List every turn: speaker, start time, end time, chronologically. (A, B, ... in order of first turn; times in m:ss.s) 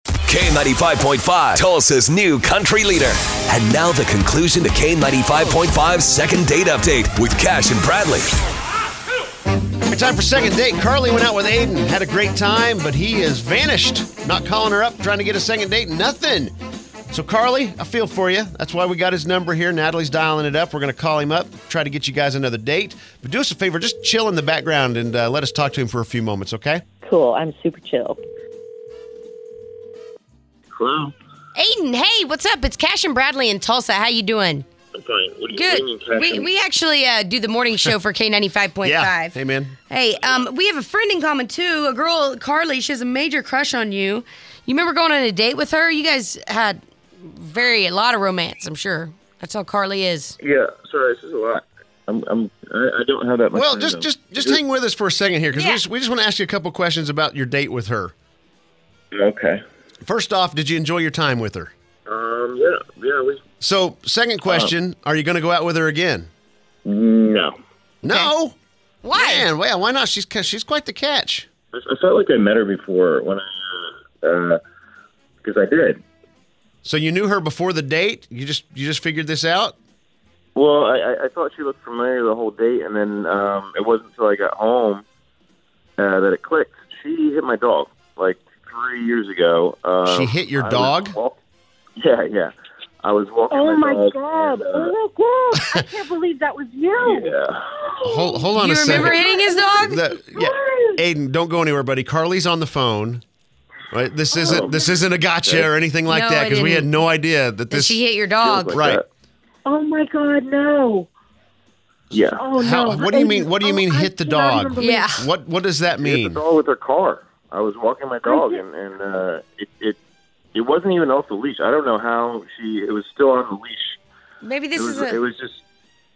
0:00.3-0:08.3 A
0:09.9-0:16.5 B
0:17.1-0:26.8 B
0:27.0-0:28.2 C
0:30.7-0:31.1 D
0:31.6-0:34.6 E
0:34.9-0:36.5 D
0:35.5-0:39.4 E
0:38.8-0:39.8 B
0:39.9-0:50.3 E
0:50.4-0:54.6 D
0:53.5-0:58.1 B
0:55.5-0:55.8 E
0:59.1-0:59.6 D
1:00.0-1:01.7 B
1:02.1-1:03.4 D
1:03.6-1:06.3 B
1:04.4-1:04.7 D
1:06.8-1:07.5 D
1:08.0-1:08.6 B
1:08.0-1:08.3 E
1:09.0-1:09.5 E
1:09.1-1:11.5 B
1:11.7-1:14.6 D
1:15.4-1:16.0 D
1:16.8-1:19.7 B
1:20.5-1:25.0 D
1:26.0-1:31.4 D
1:30.0-1:31.2 B
1:32.0-1:34.9 D
1:33.5-1:41.0 C
1:37.0-1:37.7 D
1:38.0-1:39.2 B
1:38.5-1:40.0 E
1:39.8-1:43.2 B
1:43.9-1:48.0 B
1:44.3-1:45.0 C
1:44.3-1:45.7 D
1:46.1-1:46.9 E
1:47.7-1:48.8 E
1:48.4-1:49.0 D
1:48.7-1:49.0 B
1:49.6-1:51.1 C
1:52.1-1:52.5 D
1:52.4-1:55.1 C
1:52.6-1:56.4 B
1:54.8-1:55.3 E
1:56.0-2:00.0 D
1:58.2-1:58.6 C
2:00.5-2:04.0 D
2:04.4-2:05.2 E
2:04.7-2:05.6 D